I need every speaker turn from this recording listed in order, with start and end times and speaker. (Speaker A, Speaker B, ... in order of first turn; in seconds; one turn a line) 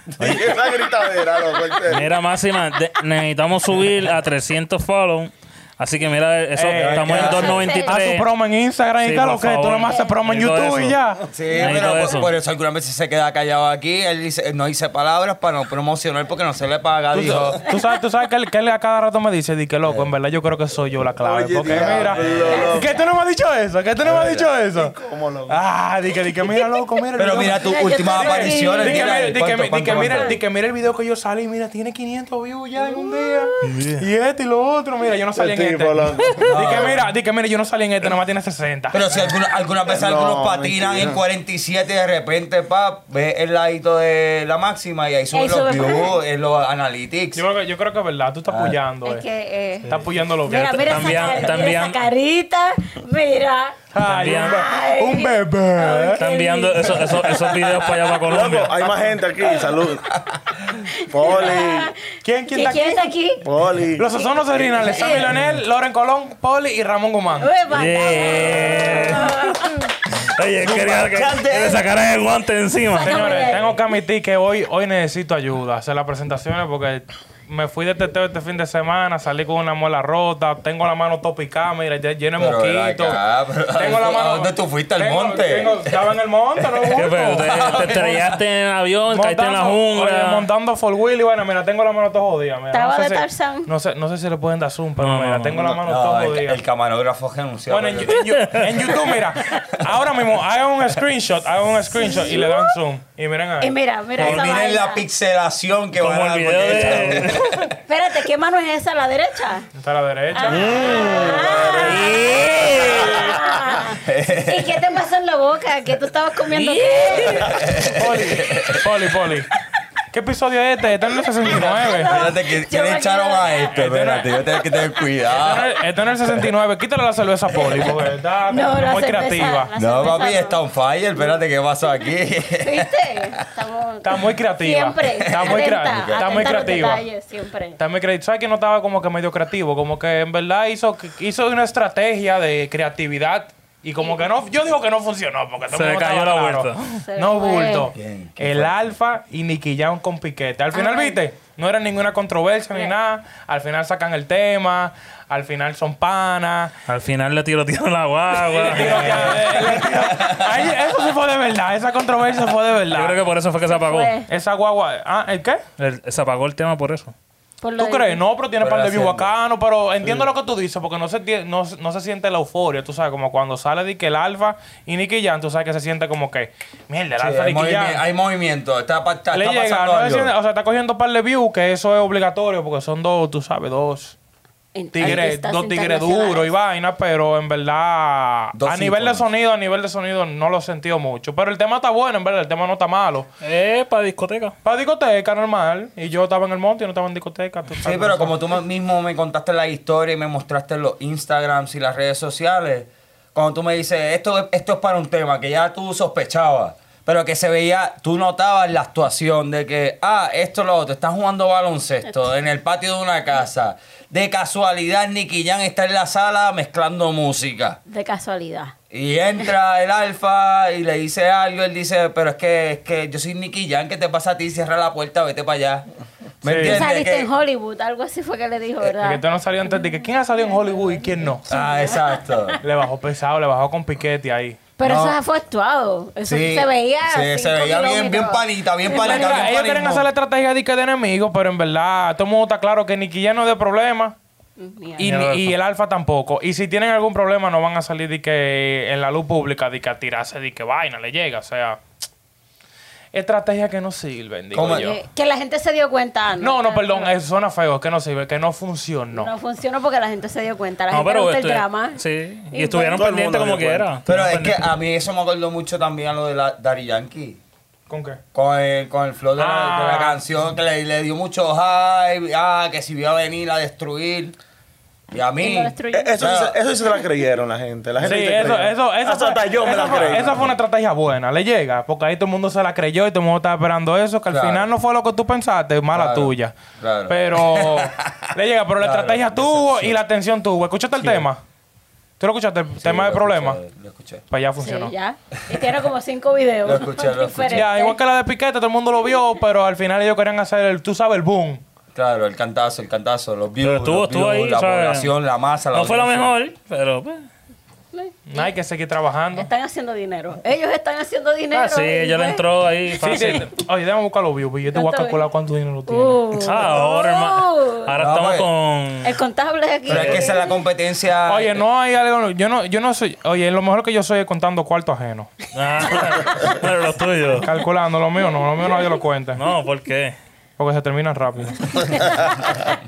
Speaker A: 0.2-2.1
Speaker B: 0.2-0.6
Speaker B: 1.9-8.3
Speaker C: 6.5-11.2
Speaker D: 6.8-7.8
Speaker E: 7.3-8.0
Speaker B: 9.0-11.0
Speaker D: 11.3-17.7
Speaker B: 11.5-12.3
Speaker C: 17.1-24.9
Speaker A: 21.2-22.9
Speaker D: 21.7-22.7
Speaker E: 22.4-22.7
Speaker A: 24.0-25.6
Speaker C: 25.5-39.0
Speaker D: 27.2-30.4
Speaker E: 27.6-29.4
Speaker E: 30.0-30.4
Speaker E: 32.8-33.7
Speaker B: 33.6-34.0
Speaker A: 35.4-36.9
Speaker D: 36.4-37.0
Speaker D: 38.9-47.4
Speaker A: 39.8-41.2
Speaker E: 45.3-46.2
Speaker C: 47.4-49.2
Speaker D: 48.5-48.8
Speaker E: 49.0-49.9
Speaker C: 49.9-50.8
Speaker B: 49.9-52.0
Speaker E: 50.5-57.5
Speaker C: 53.9-56.2
Speaker B: 54.0-54.6
Speaker B: 56.2-58.7
Speaker D: 57.5-57.8
Speaker A: 58.2-60.1
Speaker E: 60.9-62.0
Speaker A: 61.1-61.9
Speaker C: 62.2-63.1
Speaker E: 62.5-63.4
Speaker A: 63.4-64.1
Speaker C: 64.0-67.5
Speaker E: 64.7-65.3
Speaker E: 67.4-69.9
Speaker B: 67.7-69.6
Speaker B: 70.2-73.6
Speaker D: 70.6-71.8
Speaker E: 72.9-73.7
Speaker C: 73.0-83.2
Speaker D: 82.4-86.0
Speaker C: 83.7-88.3
Speaker D: 86.6-88.4
Speaker B: 87.0-90.5
Speaker C: 89.1-96.6
Speaker E: 92.7-93.7
Speaker B: 95.0-95.6
Speaker D: 95.6-99.6
Speaker C: 97.7-103.8
Speaker B: 98.2-98.7
Speaker E: 101.9-102.7
Speaker E: 103.6-105.0
Speaker D: 104.2-107.8
Speaker B: 106.0-107.7
Speaker E: 107.9-109.7
Speaker C: 109.8-110.8
Speaker E: 110.3-117.7
Speaker A: 110.5-111.6
Speaker D: 110.7-113.3
Speaker B: 111.7-113.4
Speaker D: 113.9-114.7
Speaker B: 116.5-117.5
Speaker D: 117.3-118.8
Speaker C: 117.9-119.5
Speaker C: 120.1-122.2
Speaker E: 121.5-123.8
Speaker D: 121.5-125.7
Speaker C: 123.7-124.4
Speaker C: 125.3-129.7
Speaker E: 128.5-130.6
Speaker D: 129.8-133.3
Speaker E: 132.6-137.8
Speaker C: 134.0-137.1
Speaker D: 135.1-136.7
Speaker C: 137.8-156.8
Speaker B: 145.7-147.0
Speaker E: 147.0-147.9
Speaker D: 147.9-148.9
Speaker E: 150.7-151.2
Speaker B: 156.9-159.4
Speaker C: 158.5-163.2
Speaker D: 158.6-160.5
Speaker B: 162.9-164.1
Speaker E: 163.7-164.3
Speaker C: 164.3-165.6
Speaker B: 165.8-167.2
Speaker E: 167.6-168.2
Speaker C: 167.8-178.0
Speaker D: 168.6-169.3
Speaker D: 177.2-180.3
Speaker C: 179.3-184.2
Speaker E: 184.8-186.5
Speaker C: 184.9-193.3
Speaker D: 188.6-189.2
Speaker B: 193.4-194.5
Speaker C: 194.6-198.3
Speaker D: 197.8-217.8
Speaker E: 217.9-218.7
Speaker D: 218.9-225.9
Speaker D: 226.4-227.3
Speaker C: 226.4-226.8
Speaker E: 226.6-229.2
Speaker C: 229.0-231.5
Speaker E: 230.8-232.6
Speaker D: 231.5-232.6
Speaker C: 232.6-234.6
Speaker E: 234.8-239.6
Speaker D: 234.8-235.2
Speaker D: 236.2-240.1
Speaker C: 238.9-244.2
Speaker E: 244.6-245.1
Speaker C: 245.0-251.8
Speaker B: 245.0-245.6
Speaker C: 253.1-255.0
Speaker D: 254.5-254.9
Speaker E: 254.6-257.1
Speaker C: 256.4-259.3
Speaker E: 259.1-263.1
Speaker B: 260.9-264.6
Speaker A: 262.9-263.9
Speaker D: 264.1-267.4
Speaker C: 267.9-268.2
Speaker D: 268.3-274.4
Speaker C: 269.4-270.2
Speaker D: 275.1-276.6
Speaker E: 275.2-276.3
Speaker A: 275.9-280.5
Speaker C: 278.0-286.6
Speaker D: 279.8-280.5
Speaker D: 284.3-284.7
Speaker D: 285.9-288.3
Speaker C: 287.1-291.4
Speaker D: 288.8-290.0
Speaker D: 291.0-291.2
Speaker C: 292.2-293.6
Speaker D: 292.8-294.2
Speaker C: 294.3-294.9
Speaker E: 294.6-298.0
Speaker D: 296.6-297.7
Speaker C: 297.5-301.6
Speaker D: 301.9-306.3
Speaker B: 303.6-305.1
Speaker B: 305.7-307.2
Speaker E: 307.9-308.5
Speaker C: 308.3-309.5
Speaker E: 309.3-312.4
Speaker B: 311.5-313.5
Speaker C: 313.0-316.3
Speaker E: 314.7-315.3
Speaker E: 315.9-317.9
Speaker B: 316.4-319.2
Speaker D: 318.0-318.5
Speaker E: 319.0-320.6
Speaker D: 319.9-321.6
Speaker B: 319.9-320.2
Speaker C: 321.3-325.3
Speaker B: 325.5-327.5
Speaker C: 327.4-329.4
Speaker E: 328.2-329.0
Speaker B: 329.4-330.2
Speaker C: 330.6-332.0
Speaker E: 331.8-332.6